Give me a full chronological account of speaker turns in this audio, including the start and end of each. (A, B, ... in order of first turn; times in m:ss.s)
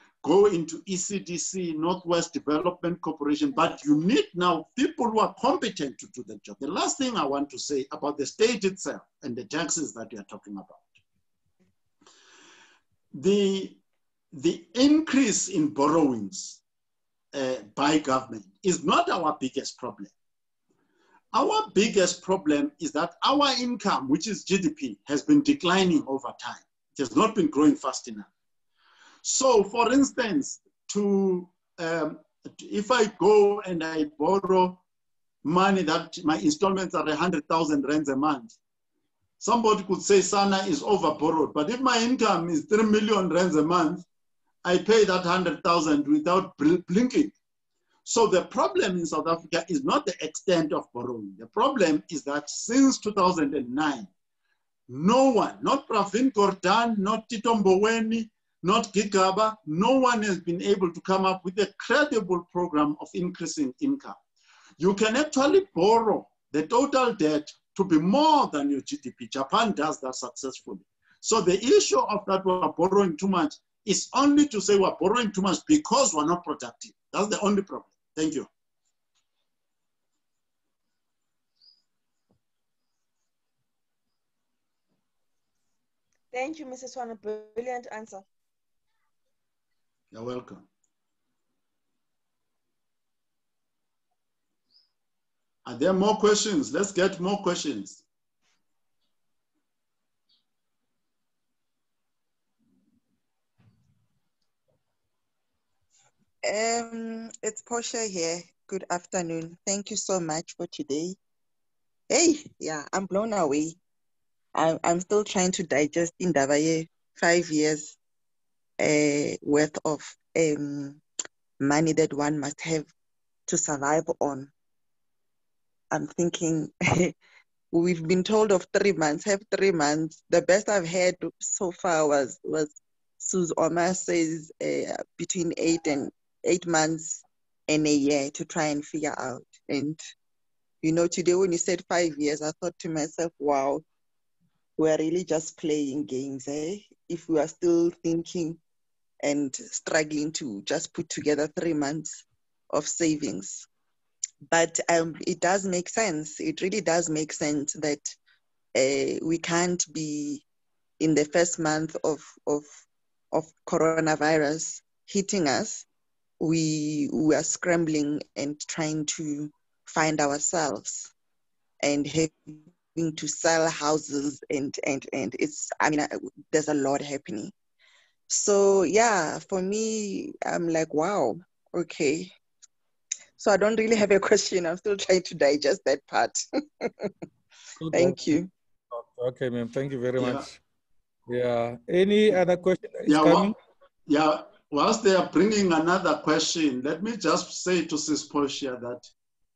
0:00.2-0:10.9 A
0:13.1-0:13.8 A
0:14.3-0:16.6 A
0:17.3-0:20.1 A
0:21.3-0:28.3 A
0:29.2-0:34.8 A
0:35.4-0:38.5 A
0:39.4-0:44.0 A
0:44.6-0:47.3 A
0:48.0-0:54.1 A
0:54.9-1:04.2 A
1:04.8-1:18.5 A
1:26.3-1:28.2 B
1:30.1-1:30.6 A
1:35.6-1:38.0 A
1:46.4-1:51.2 C
1:52.1-1:53.8 C
1:54.5-1:58.0 C
1:58.8-2:01.0 C
2:01.6-2:02.9 C
2:03.5-2:04.5 C
2:05.9-2:07.1 C
2:07.7-2:20.0 C
2:20.8-2:23.8 C
2:24.8-2:28.6 C
2:29.2-2:33.7 C
2:34.5-2:38.2 C
2:38.7-2:40.4 C
2:41.0-2:42.7 C
2:43.3-2:45.8 C
2:46.4-2:51.1 C
2:51.8-2:57.5 C
2:58.3-3:02.3 C
3:03.4-3:07.1 C
3:07.8-3:08.2 D
3:07.9-3:08.5 C
3:08.9-3:10.6 D
3:10.2-3:10.5 A
3:11.3-3:13.6 D
3:13.1-3:13.5 A
3:14.1-3:19.1 A